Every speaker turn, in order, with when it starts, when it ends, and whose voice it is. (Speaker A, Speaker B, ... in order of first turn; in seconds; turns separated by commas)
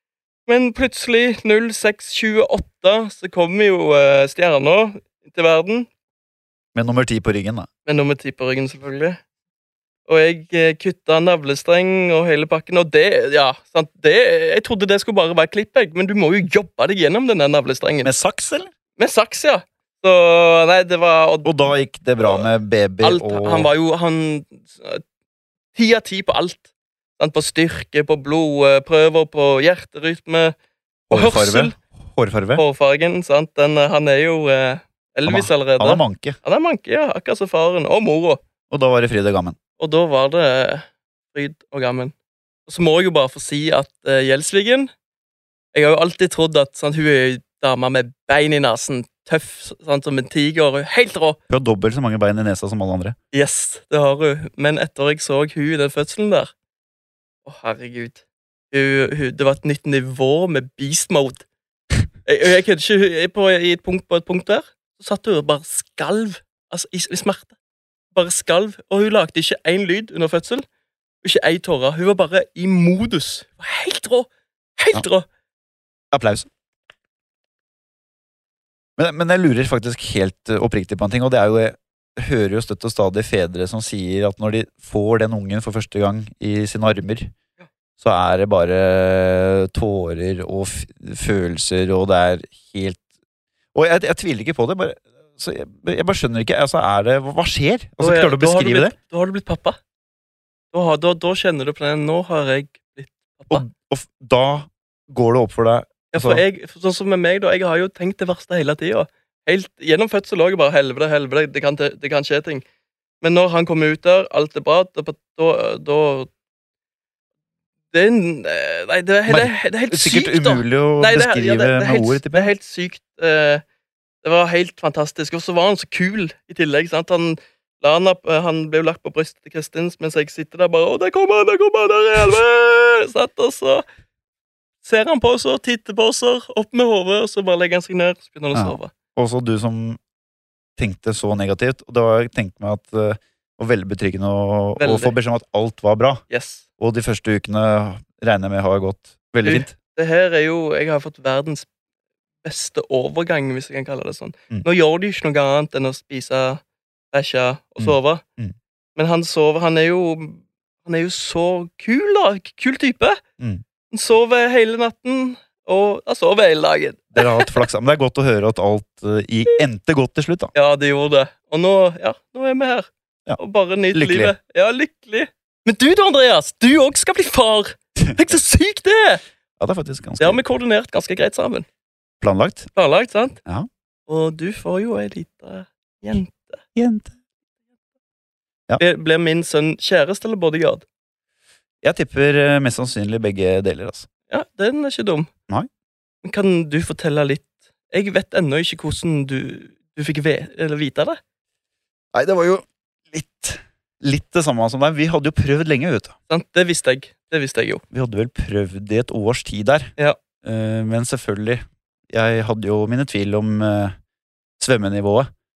Speaker A: 0.5-5.9, Speaker B: 6.8-7.7, Speaker A: 7.9-9.2, Speaker A: 10.1-18.1, Speaker B: 18.0-18.7, Speaker A: 19.0-21.7, Speaker B: 21.4-23.7, Speaker A: 23.0-25.0, Speaker A: 25.7-26.6, Speaker A: 27.2-30.6, Speaker A: 31.1-31.8, Speaker B: 31.1-32.6, Speaker A: 32.6-38.4, Speaker B: 35.3-36.4, Speaker B: 38.7-39.6, Speaker A: 39.8-42.1, Speaker A: 42.7-44.9, Speaker A: 45.7-51.4, Speaker B: 51.5-53.2, Speaker A: 53.3-56.5, Speaker A: 57.5-61.5, Speaker A: 62.3-67.5, Speaker A: 68.1-70.7, Speaker A: 71.2-75.3, Speaker B: 76.1-76.5, Speaker B: 79.0-87.3, Speaker B: 88.0-93.0, Speaker B: 93.8-98.9, Speaker A: 98.0-99.8, Speaker A: 100.7-103.7, Speaker B: 103.5-106.4, Speaker A: 106.1-112.6, Speaker A: 113.2-116.3, Speaker A: 117.9-123.6, Speaker B: 119.3-122.5, Speaker A: 124.2-133.8, Speaker A: 134.8-138.9, Speaker B: 138.5-140.0, Speaker B: 140.8-146.2, Speaker A: 144.8-145.2, Speaker A: 146.3-146.6, Speaker B: 146.8-149.7, Speaker A: 149.4-151.7, Speaker A: 152.4-158.2, Speaker B: 157.8-158.5, Speaker A: 159.0-163.2, Speaker A: 163.9-167.6, Speaker B: 167.2-170.5, Speaker A: 170.5-179.2, Speaker B: 173.9-174.3, Speaker B: 179.6-180.4, Speaker A: 180.2-181.7, Speaker B: 182.2-182.7, Speaker A: 182.8-183.4, Speaker A: 184.1-186.6, Speaker B: 186.8-187.1, Speaker A: 188.8-190.8, Speaker B: 191.8-194.1, Speaker A: 194.3-195.3, Speaker A: 196.2-201.2, Speaker B: 202.1-206.2, Speaker A: 206.3-207.8, Speaker B: 207.9-209.9, Speaker B: 210.4-213.9, Speaker B: 214.6-215.3